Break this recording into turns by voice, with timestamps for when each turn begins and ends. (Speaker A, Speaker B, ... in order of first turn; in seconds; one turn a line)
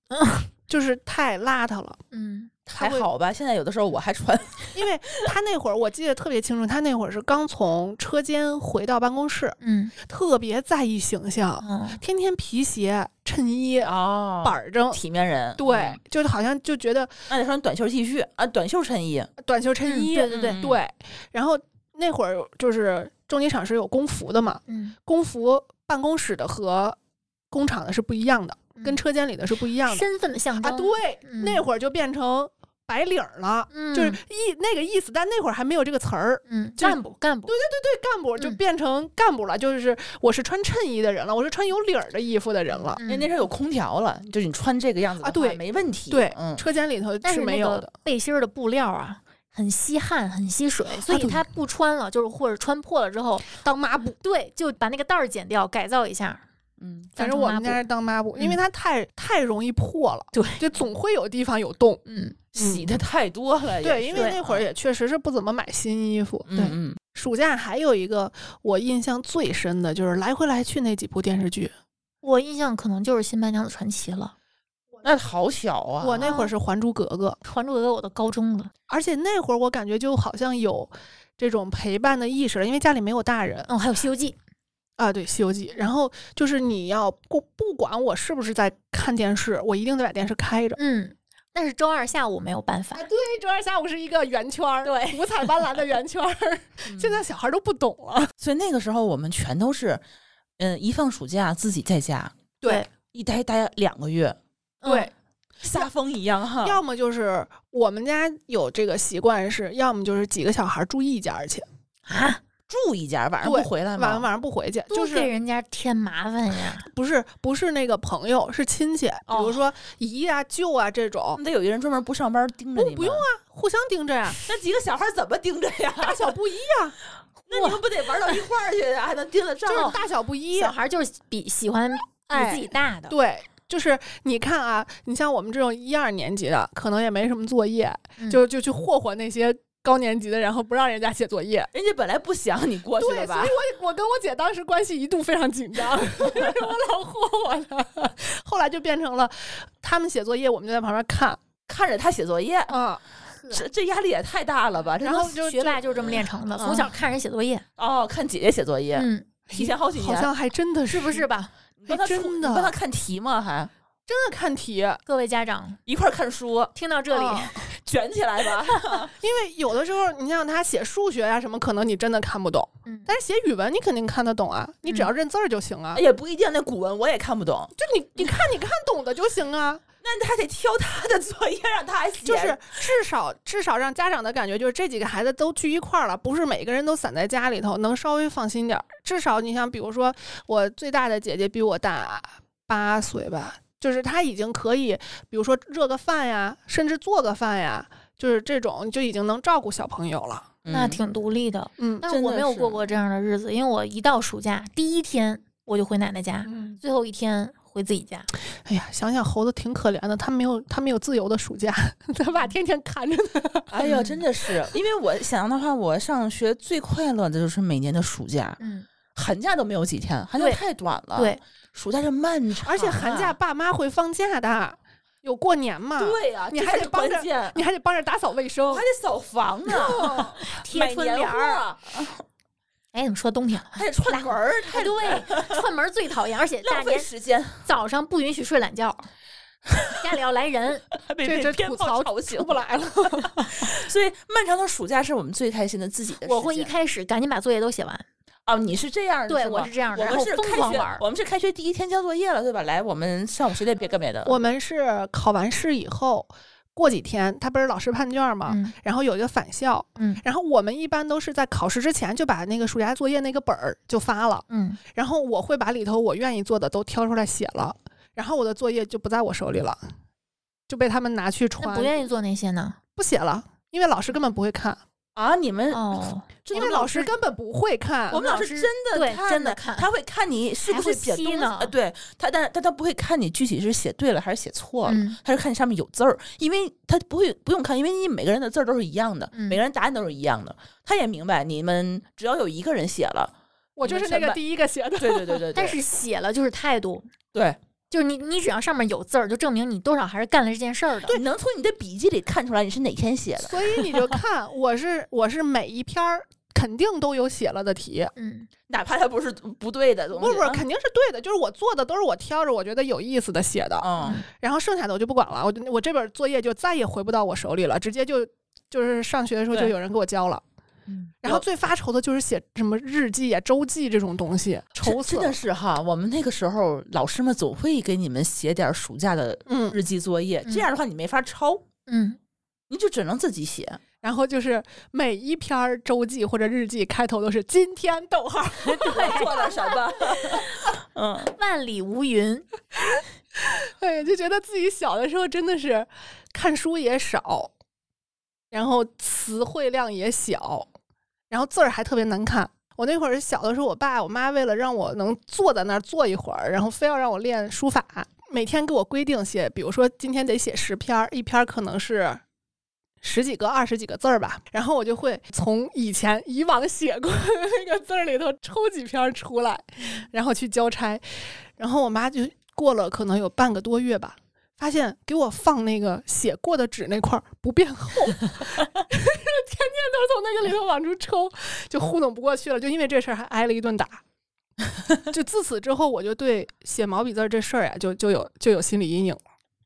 Speaker A: 0.1-0.5
Speaker B: 0.7-2.0
Speaker A: 2.1-2.5
Speaker C: 2.7-4.9
Speaker B: 2.8-3.0
Speaker B: 4.7-15.0
Speaker A: 9.6-9.9
Speaker A: 11.6-12.0
Speaker C: 13.8-16.0
Speaker B: 15.6-17.2
Speaker C: 17.3-19.3
Speaker B: 19.4-26.9
Speaker A: 19.8-20.6
Speaker C: 20.3-20.8
Speaker A: 24.7-24.9
Speaker B: 27.5-30.0
Speaker A: 29.9-31.6
Speaker B: 30.6-43.0
Speaker A: 33.7-34.2
Speaker A: 36.5-37.5
Speaker A: 42.8-43.3
Speaker C: 43.0-46.6
Speaker B: 45.2-47.9
Speaker A: 47.2-53.5
Speaker B: 51.1-51.4
Speaker B: 53.5-54.2
Speaker A: 54.2-56.4
Speaker C: 56.8-57.1
Speaker B: 57.1-62.0
Speaker A: 57.2-57.8
Speaker A: 60.3-60.6
Speaker A: 62.0-62.4
Speaker C: 62.5-64.6
Speaker B: 62.6-62.9
Speaker B: 63.8-71.7
Speaker C: 66.5-67.0
Speaker A: 72.2-74.3
Speaker C: 75.0-76.3
Speaker B: 76.0-77.4
Speaker A: 76.2-76.5
Speaker A: 77.5-78.7
Speaker B: 78.9-83.7
Speaker A: 83.7-84.3
Speaker B: 85.0-90.8
Speaker A: 90.8-93.0
Speaker B: 92.9-98.3
Speaker A: 94.8-95.3
Speaker C: 96.9-97.2
Speaker C: 98.4-100.0
Speaker C: 100.6-102.3
Speaker C: 103.1-104.4
Speaker A: 104.8-105.1
Speaker B: 104.8-105.1
Speaker C: 105.6-106.8
Speaker B: 106.6-111.7
Speaker A: 112.1-112.4
Speaker C: 112.7-114.3
Speaker B: 113.4-115.3
Speaker A: 114.9-116.9
Speaker B: 116.8-121.4
Speaker A: 119.3-119.6
Speaker C: 121.3-123.2
Speaker B: 122.8-124.4
Speaker C: 124.4-126.3
Speaker B: 126.0-127.0
Speaker C: 127.5-130.0
Speaker B: 129.7-130.7
Speaker A: 129.7-130.0
Speaker A: 130.5-133.1
Speaker B: 132.3-141.7
Speaker C: 141.7-143.6
Speaker B: 143.0-151.4
Speaker C: 151.7-152.8
Speaker B: 152.7-153.0
Speaker C: 153.5-155.4
Speaker B: 155.0-156.9
Speaker A: 155.1-157.6
Speaker C: 157.8-160.3
Speaker A: 158.9-159.3
Speaker B: 159.5-161.3
Speaker A: 160.9-161.5
Speaker C: 161.8-163.7
Speaker B: 161.9-162.7
Speaker B: 164.1-165.0
Speaker A: 165.1-165.8
Speaker C: 165.8-166.7
Speaker A: 166.7-167.7
Speaker B: 167.1-167.5
Speaker C: 167.8-169.1
Speaker B: 169.1-176.0
Speaker A: 172.8-173.1
Speaker C: 175.9-177.7
Speaker B: 177.8-179.8
Speaker C: 180.0-182.6
Speaker B: 182.2-200.5
Speaker C: 200.6-201.0
Speaker A: 200.7-208.3
Speaker B: 201.8-202.1
Speaker C: 202.1-202.8
Speaker B: 206.4-206.8
Speaker B: 208.7-213.8
Speaker C: 213.7-218.6
Speaker A: 213.8-214.2
Speaker A: 218.6-218.9
Speaker C: 219.1-223.3
Speaker A: 221.1-221.4
Speaker B: 222.6-228.8
Speaker C: 226.0-227.6
Speaker C: 228.7-232.2
Speaker B: 229.7-230.4
Speaker A: 230.4-231.6
Speaker A: 232.9-237.1
Speaker C: 233.7-235.6
Speaker C: 236.6-237.6
Speaker A: 237.6-239.1
Speaker A: 239.9-240.9
Speaker C: 240.9-242.6
Speaker B: 241.2-243.6
Speaker C: 243.5-246.7
Speaker A: 246.2-248.0
Speaker C: 248.4-254.4
Speaker A: 249.3-251.0
Speaker B: 254.2-269.8
Speaker A: 258.5-258.7
Speaker A: 264.5-264.8
Speaker B: 270.7-271.9
Speaker A: 271.6-272.8
Speaker B: 272.9-274.8
Speaker C: 275.1-277.0
Speaker A: 275.7-277.1
Speaker B: 276.5-278.2
Speaker C: 278.1-293.3
Speaker A: 278.1-279.9
Speaker A: 280.6-281.7
Speaker A: 284.8-285.2
Speaker A: 289.3-289.6
Speaker B: 293.8-295.5
Speaker C: 293.8-294.4
Speaker C: 295.0-295.8
Speaker A: 295.5-297.1
Speaker A: 297.9-301.2
Speaker C: 301.1-303.8
Speaker B: 303.4-308.1
Speaker A: 308.1-308.5
Speaker C: 308.7-310.6
Speaker B: 310.1-320.4
Speaker C: 313.8-314.2
Speaker A: 314.0-314.2
Speaker C: 320.9-321.4
Speaker B: 321.2-325.4
Speaker C: 324.8-331.6
Speaker B: 329.5-329.8
Speaker A: 331.9-332.2
Speaker C: 332.7-333.8
Speaker B: 334.0-339.1
Speaker A: 338.6-340.7
Speaker C: 338.8-341.3
Speaker A: 341.2-342.5
Speaker B: 343.4-347.5
Speaker B: 348.5-350.7
Speaker B: 351.3-362.2
Speaker B: 363.0-384.0
Speaker B: 385.0-389.2